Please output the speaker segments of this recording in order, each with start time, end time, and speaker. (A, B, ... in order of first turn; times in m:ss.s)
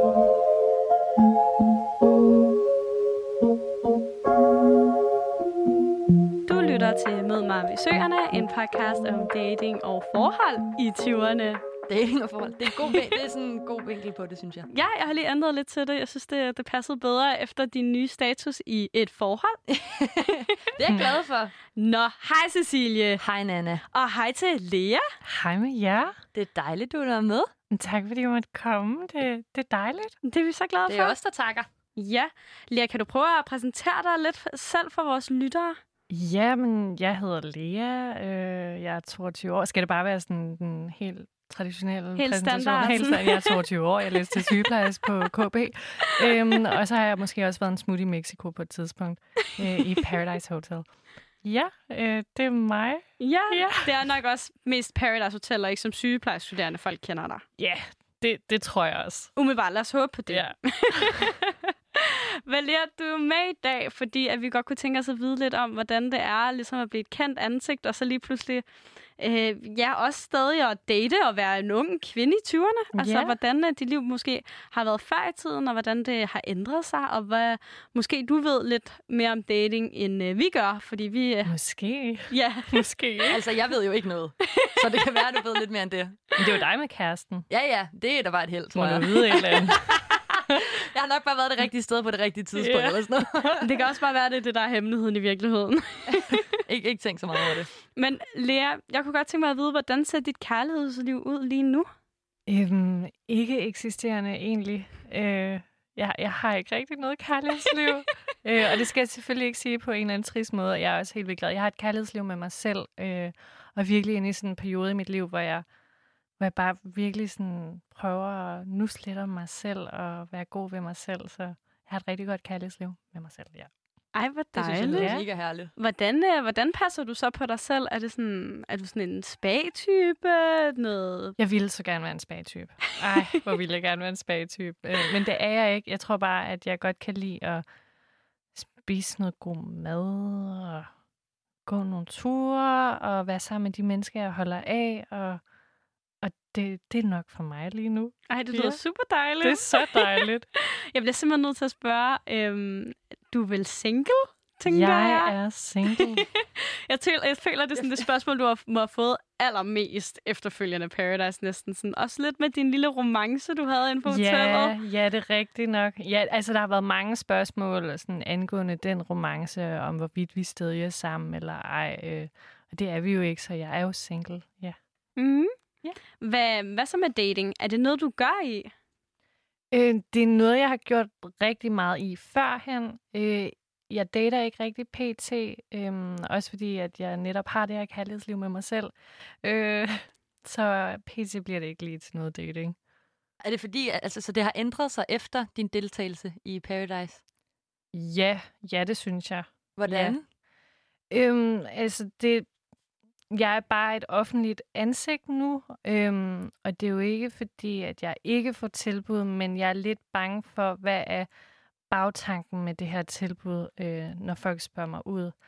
0:06.4-0:11.6 A
0:11.9-0:14.7 B
0:12.8-0:13.1 A
0:14.7-0:19.6 A
0:19.7-0:21.5 B
0:21.7-0:23.2 A
0:23.2-0:23.8 B
0:23.9-0:25.0 A
0:25.2-0:26.2 C
0:26.3-0:27.5 B
0:27.7-0:30.2 C
0:30.2-0:31.1 A
0:30.9-0:31.7 B
0:32.0-0:35.8 A
0:36.1-0:50.9 C
0:42.2-0:43.6 A
0:44.2-0:45.1 A
0:46.0-0:46.4 A
0:51.4-0:53.9 C
0:53.2-0:57.4 A
0:57.6-0:59.3 C
0:59.4-1:08.6 A
1:00.3-1:01.3 C
1:09.2-1:21.5 A
1:12.9-1:13.4 C
1:21.4-1:23.4 C
1:22.3-1:22.9 A
1:23.3-1:26.2 B
1:26.4-1:27.5 C
1:27.5-1:33.7 B
1:28.7-1:30.0 C
1:32.6-1:33.6 C
1:33.6-1:36.4 A
1:36.6-1:37.7 B
1:38.0-1:41.9 A
1:42.5-1:55.6 C
1:56.4-2:03.7 C
2:04.1-2:05.1 A
2:04.6-2:05.7 B
2:04.9-2:05.2 C
2:05.8-2:11.4 A
2:11.4-2:17.6 C
2:18.5-2:20.9 C
2:21.6-2:25.4 C
2:26.2-2:28.8 C
2:28.3-2:35.3 A
2:29.4-2:30.4 C
2:34.7-2:36.3 C
2:35.9-2:44.7 A
2:44.0-2:54.8 C
2:55.2-2:55.5 A
2:56.2-2:58.7 A
2:59.7-3:12.8 C
3:13.4-3:17.2 B
3:17.9-3:20.2 C
3:19.8-3:20.2 B
3:21.1-3:22.5 C
3:23.3-3:31.3 C
3:31.9-3:35.3 C